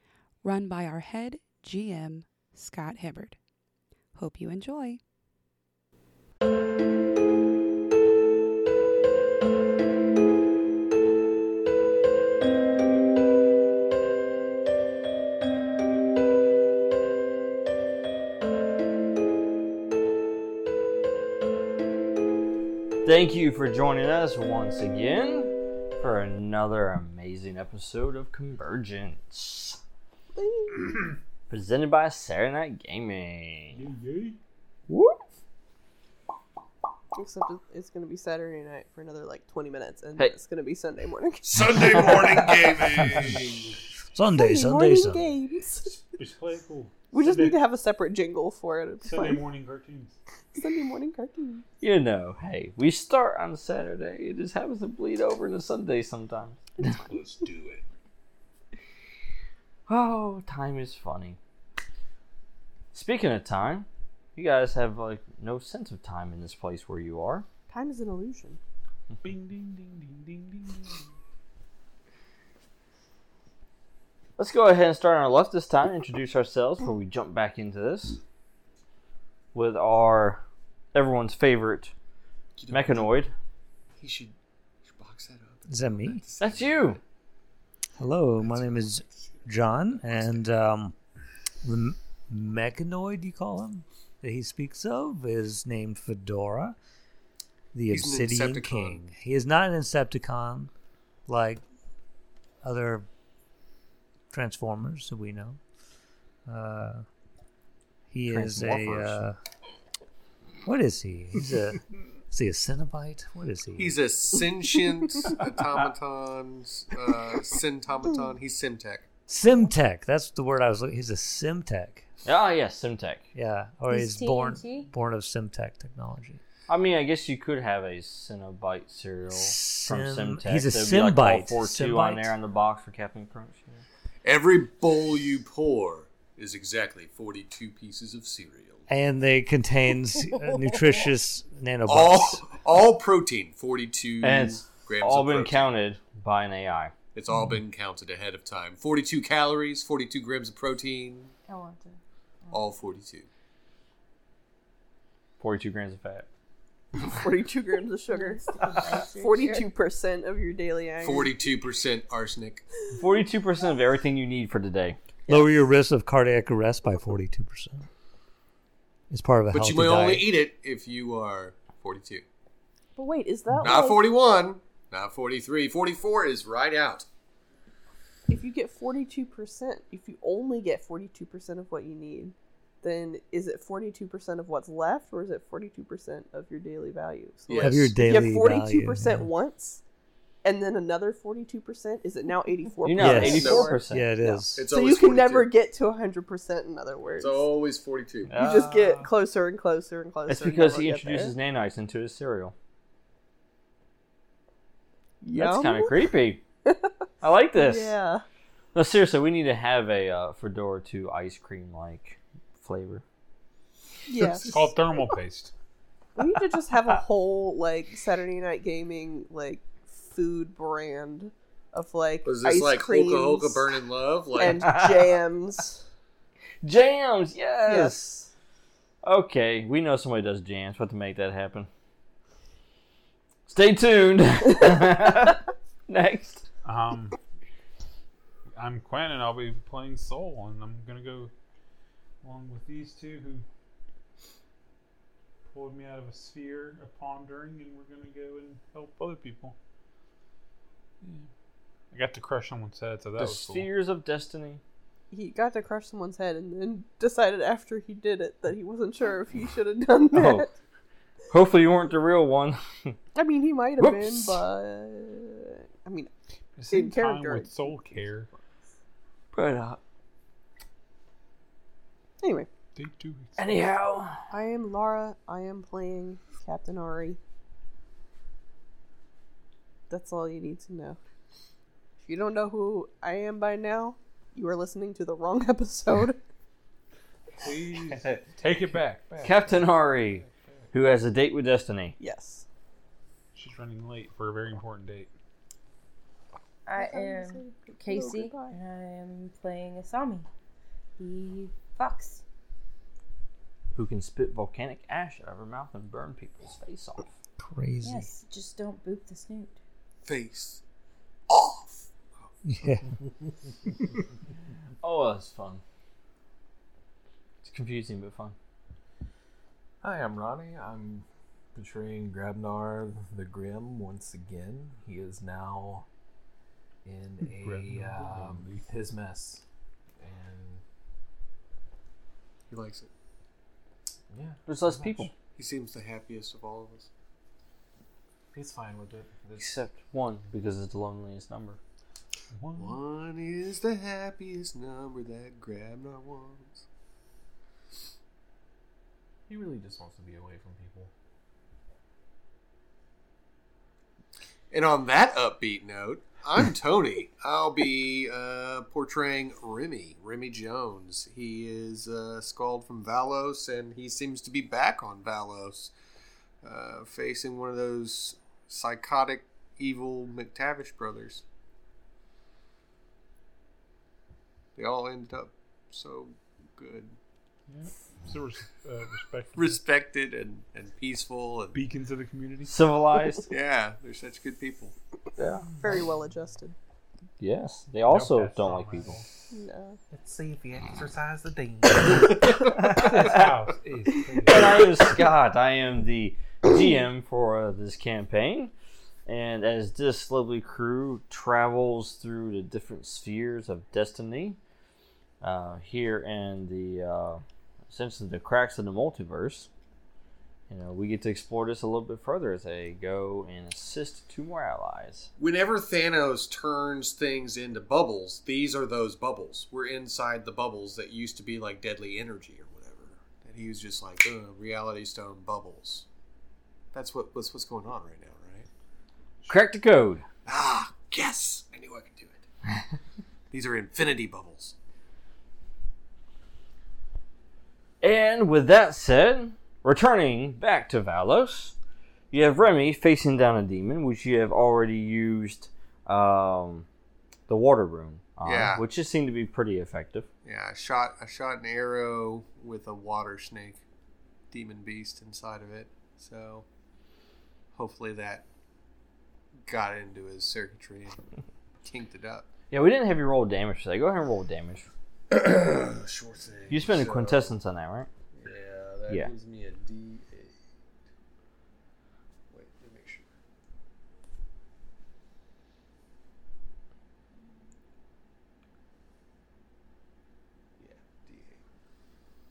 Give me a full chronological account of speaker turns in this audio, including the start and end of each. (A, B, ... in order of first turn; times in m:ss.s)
0:00.4-0:03.4 A
0:04.2-0:05.0 A
0:23.0-0:29.8 B
0:30.4-0:31.1 C
0:31.5-0:33.8 B
0:33.7-0:34.4 D
0:34.9-0:35.2 B
0:37.1-0:42.5 C
0:41.4-0:43.7 E
0:44.1-0:45.2 F
0:44.3-0:46.0 C
0:46.2-0:47.6 D
0:47.1-0:49.4 C
0:49.0-0:50.2 D
0:50.5-0:51.6 C
0:51.8-0:57.0 B
0:56.8-0:57.8 G
0:59.9-1:01.4 B
1:02.9-1:07.5 B
1:07.7-1:08.6 C
1:09.2-1:11.0 D
1:14.4-1:18.2 B
1:19.5-1:20.4 B
1:20.9-1:21.9 B
1:22.6-1:23.1 E
1:22.7-1:23.3 B
1:24.0-1:27.0 E
1:25.7-1:26.2 F
1:26.4-1:27.0 B
1:28.0-1:31.0 F
1:28.4-1:30.4 E
1:31.6-1:36.8 F
1:37.7-1:40.7 F
1:37.9-1:39.1 E
1:41.3-1:41.6 F
1:42.6-1:43.1 F
1:44.3-1:45.6 F
1:46.5-1:47.0 F
1:48.1-1:49.4 F
1:48.3-1:49.2 B
1:50.6-1:54.0 F
1:53.8-1:59.1 E
1:59.3-2:02.1 F
2:02.2-2:03.2 B
2:03.3-2:06.4 F
2:03.9-2:04.9 H
2:06.7-2:13.8 B
2:09.3-2:12.3 F
2:14.2-2:18.9 E
2:18.9-2:22.4 F
2:21.9-2:25.7 E
2:24.2-2:26.9 B
2:27.1-2:31.3 E
2:31.5-2:32.6 H
2:32.5-2:33.3 E
2:35.4-2:36.3 B
2:37.1-2:41.3 C
2:38.1-2:39.7 H
2:41.0-2:42.6 E
2:43.0-2:45.0 B
2:45.3-2:47.9 F
2:49.1-2:50.3 F
2:49.5-2:52.2 E
2:53.0-2:54.0 C
2:53.6-2:57.1 E
2:58.3-3:09.8 C
3:07.5-3:07.9 E
3:07.6-3:09.3 F
3:10.4-3:17.5 C
3:12.8-3:14.4 B
3:13.0-3:14.6 F
3:13.2-3:13.7 E
3:14.6-3:15.5 E
3:17.2-3:18.4 E
3:18.3-3:19.1 B
3:18.4-3:21.3 C
3:20.3-3:22.6 B
3:25.2-3:26.0 C
3:25.3-3:26.4 B
3:26.6-3:26.9 C
3:27.2-3:28.0 B
3:27.5-3:28.2 C
3:28.7-3:33.0 B
3:34.1-3:34.6 C
3:34.4-3:35.5 D
3:36.2-3:43.7 C
3:42.2-3:44.8 E
3:44.4-3:45.8 C
3:46.6-3:48.3 B
3:47.7-3:48.0 C
3:49.0-3:51.7 B
3:53.5-3:56.5 B
3:56.6-3:57.2 D
3:58.6-4:01.3 D
4:02.2-4:03.5 D
4:05.5-4:09.6 D
4:11.0-4:11.3 D
4:11.9-4:13.7 D
4:13.2-4:14.6 B
4:15.1-4:20.5 C
4:20.1-4:20.5 B
4:21.3-4:23.0 B
4:23.2-4:26.1 C
4:23.8-4:24.4 B
4:26.6-4:28.3 D
4:26.7-4:27.5 C
4:29.3-4:29.8 B
4:32.2-4:32.5 C
4:32.8-4:33.4 D
4:33.4-4:34.2 B
4:34.3-4:37.2 C
4:39.9-4:41.0 C
4:42.0-4:46.2 C
4:47.4-4:49.1 D
4:47.8-4:49.6 G
4:49.2-4:52.0 B
4:50.2-4:50.6 G
4:52.0-4:52.4 C
4:53.3-4:55.1 D
4:56.7-5:00.3 H
4:56.8-4:58.6 C
5:01.0-5:02.2 H
5:03.8-5:07.1 B
5:07.4-5:08.1 F
5:07.8-5:09.6 H
5:10.0-5:10.6 E
5:11.3-5:12.3 E
5:12.4-5:12.9 F
5:14.8-5:15.6 B
5:17.4-5:18.4 B
5:19.8-5:25.9 G
5:26.8-5:29.4 G
5:27.2-5:28.7 D
5:30.0-5:30.6 G
5:32.5-5:32.9 E
5:34.1-5:35.1 G
5:34.5-5:35.1 B
5:35.4-5:36.9 E
5:38.3-5:39.5 G
5:39.4-5:41.6 B
5:42.4-5:42.8 D
5:42.6-5:46.6 E
5:49.3-5:50.9 G
5:54.5-6:05.7 E
6:06.4-6:11.2 E
6:14.6-6:17.0 E
6:17.5-6:19.6 D
6:19.4-6:21.6 E
6:21.5-6:22.5 D
6:22.5-6:23.3 B
6:23.3-6:24.7 E
6:25.2-6:25.4 B
6:25.6-6:26.6 C
6:27.2-6:29.0 B
6:27.9-6:29.0 D
6:29.3-6:29.8 C
6:29.9-6:33.2 G
6:31.9-6:33.4 B
6:32.7-6:34.3 D
6:33.9-6:34.7 G
6:34.2-6:38.5 B
6:39.1-6:44.4 B
6:45.2-6:49.5 B
6:50.5-6:55.1 B
6:55.2-7:05.9 E
7:06.7-7:08.5 E
7:09.3-7:10.0 B
7:10.3-7:12.2 E
7:13.3-7:14.6 E
7:17.8-7:21.6 B
7:22.1-7:26.7 B
7:27.3-7:30.1 B
7:28.2-7:28.6 E
7:30.2-7:33.6 E
7:34.3-7:36.5 E
7:37.6-7:38.3 E
7:39.5-7:41.0 E
7:41.6-7:42.3 E
7:42.5-7:44.7 B
7:45.1-7:47.3 E
7:46.5-7:47.9 B
7:48.1-7:50.4 E
7:52.3-7:53.1 E
8:00.6-8:01.4 E